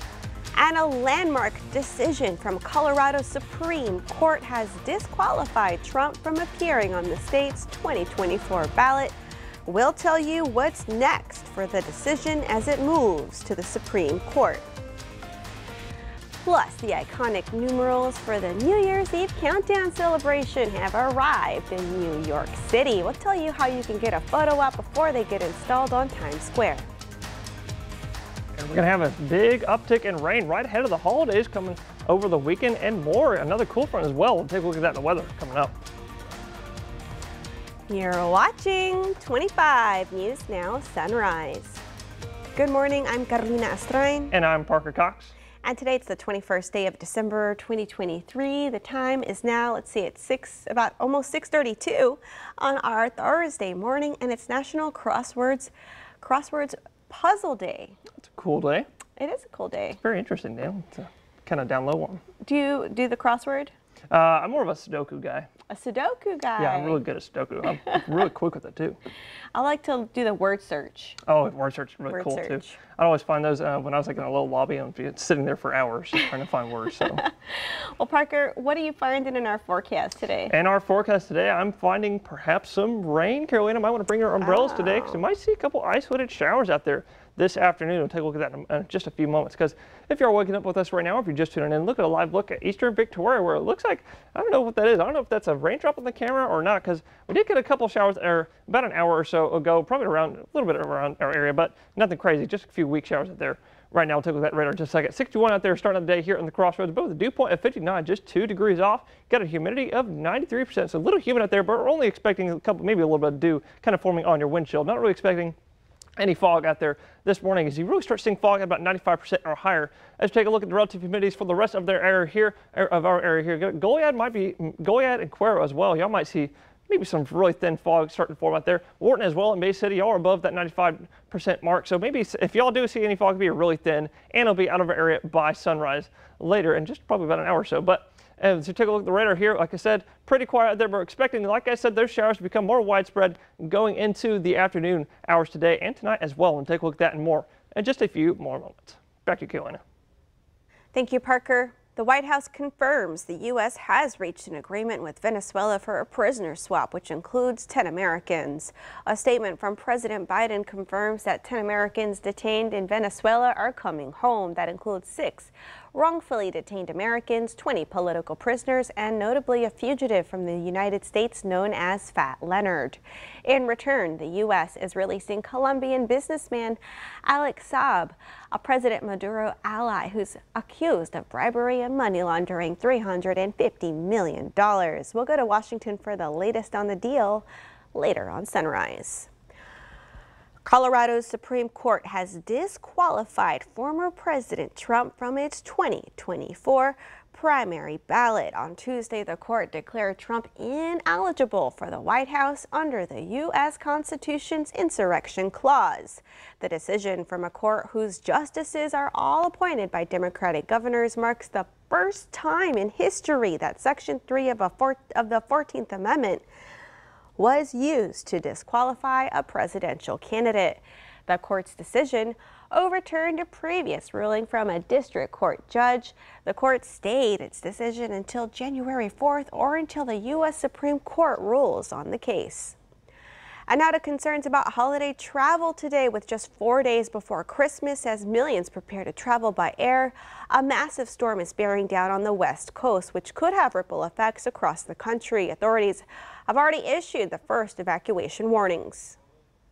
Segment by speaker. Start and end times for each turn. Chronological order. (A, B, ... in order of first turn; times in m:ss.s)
0:00.5-0:14.7 A
0:16.4-0:26.9 A
0:28.6-0:35.7 B
0:37.9-0:41.8 A
0:42.5-0:44.3 A
0:44.3-0:45.3 B
0:45.6-0:57.9 A
0:58.3-0:58.9 B
0:59.2-1:00.0 A
1:00.0-1:02.2 B
1:02.4-1:03.7 A
1:04.1-1:05.5 B
1:05.7-1:07.0 A
1:06.6-1:09.0 B
1:09.5-1:11.2 A
1:11.3-1:17.2 B
1:12.1-1:12.8 A
1:17.5-1:20.5 A
1:20.5-1:55.5 B
1:24.4-1:25.2 A
1:56.2-2:29.8 B
2:30.9-3:09.3 A
3:10.6-3:36.4 A
3:37.4-3:52.8 A
3:53.7-4:09.2 A